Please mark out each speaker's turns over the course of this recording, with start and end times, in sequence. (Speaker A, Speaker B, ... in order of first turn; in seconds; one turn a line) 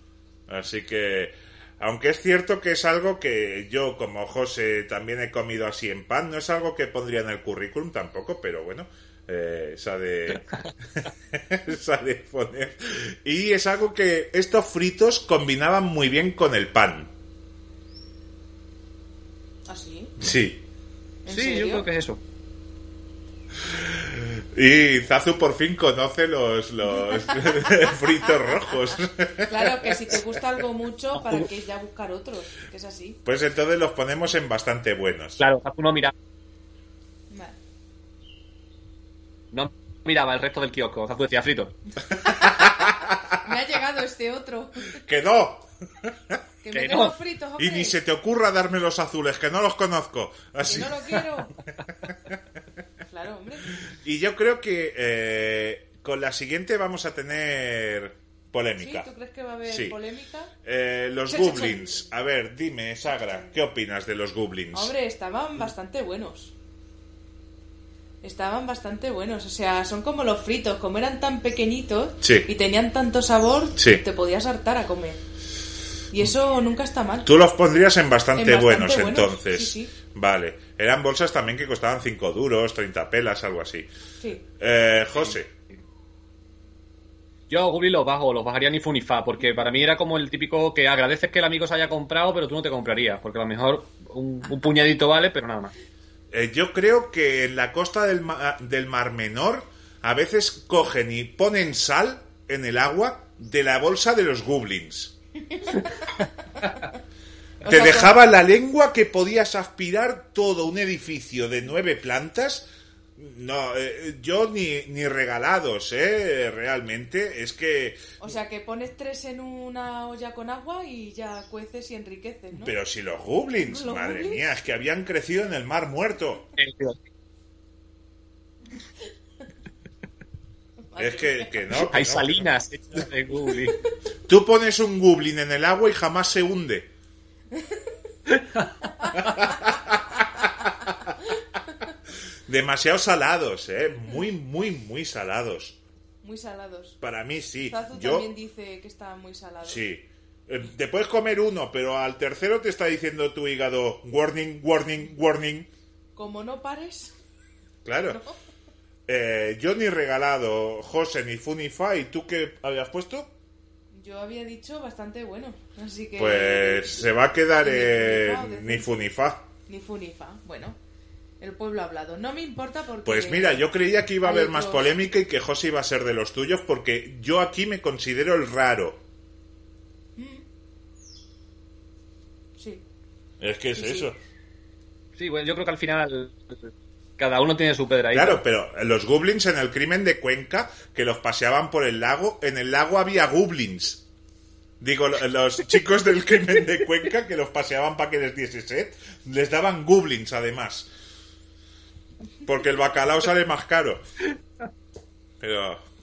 Speaker A: 0.5-17.1
Speaker B: 19.7-20.1
Speaker A: 20.2-20.6
Speaker B: 21.2-21.9
Speaker C: 21.3-22.2
Speaker A: 23.7-30.2
Speaker B: 27.1-27.9
Speaker B: 29.4-33.2
Speaker A: 33.2-35.4
Speaker C: 35.4-36.1
Speaker B: 37.3-37.6
Speaker C: 39.5-41.8
Speaker B: 42.2-45.0
Speaker A: 42.3-43.4
Speaker A: 45.0-46.4
Speaker B: 46.6-48.0
Speaker C: 46.7-47.1
Speaker A: 47.6-51.3
Speaker B: 50.6-51.5
Speaker B: 53.0-53.8
Speaker A: 53.9-59.1
Speaker B: 58.8-60.5
Speaker A: 59.7-60.0
Speaker A: 60.6-64.9
Speaker B: 61.3-62.1
Speaker B: 63.2-63.5
Speaker B: 64.7-66.5
Speaker B: 68.2-75.2
Speaker A: 72.2-72.5
Speaker A: 73.8-74.0
Speaker B: 76.1-77.3
Speaker A: 77.2-83.9
Speaker B: 78.3-79.9
Speaker A: 84.6-85.5
Speaker C: 87.5-95.7
Speaker A: 96.3-105.2
Speaker B: 105.5-105.9
Speaker B: 107.6-108.1
Speaker A: 107.7-118.1
Speaker B: 118.2-122.8
Speaker A: 122.5-126.5
Speaker B: 123.6-124.4
Speaker C: 126.6-127.0
Speaker B: 130.9-131.7
Speaker A: 131.0-132.5
Speaker C: 131.7-133.8
Speaker A: 134.3-136.9
Speaker B: 137.5-137.8
Speaker C: 138.3-138.7
Speaker B: 139.0-139.7
Speaker A: 139.2-140.9
Speaker A: 142.5-145.8
Speaker B: 146.2-147.0
Speaker A: 147.0-148.3
Speaker B: 147.7-149.8
Speaker A: 149.6-155.7
Speaker B: 156.2-157.1
Speaker A: 157.8-158.2
Speaker A: 159.1-163.3
Speaker B: 163.9-167.0
Speaker A: 166.2-169.5
Speaker B: 167.6-168.9
Speaker B: 169.7-170.8
Speaker B: 171.4-173.7
Speaker A: 173.0-179.0
Speaker B: 174.2-175.0
Speaker B: 180.2-180.4
Speaker B: 182.6-182.8
Speaker A: 183.4-184.2
Speaker B: 183.8-184.1
Speaker C: 185.2-188.4
Speaker A: 188.1-194.1
Speaker A: 194.8-200.9
Speaker A: 202.4-204.0
Speaker A: 205.4-205.8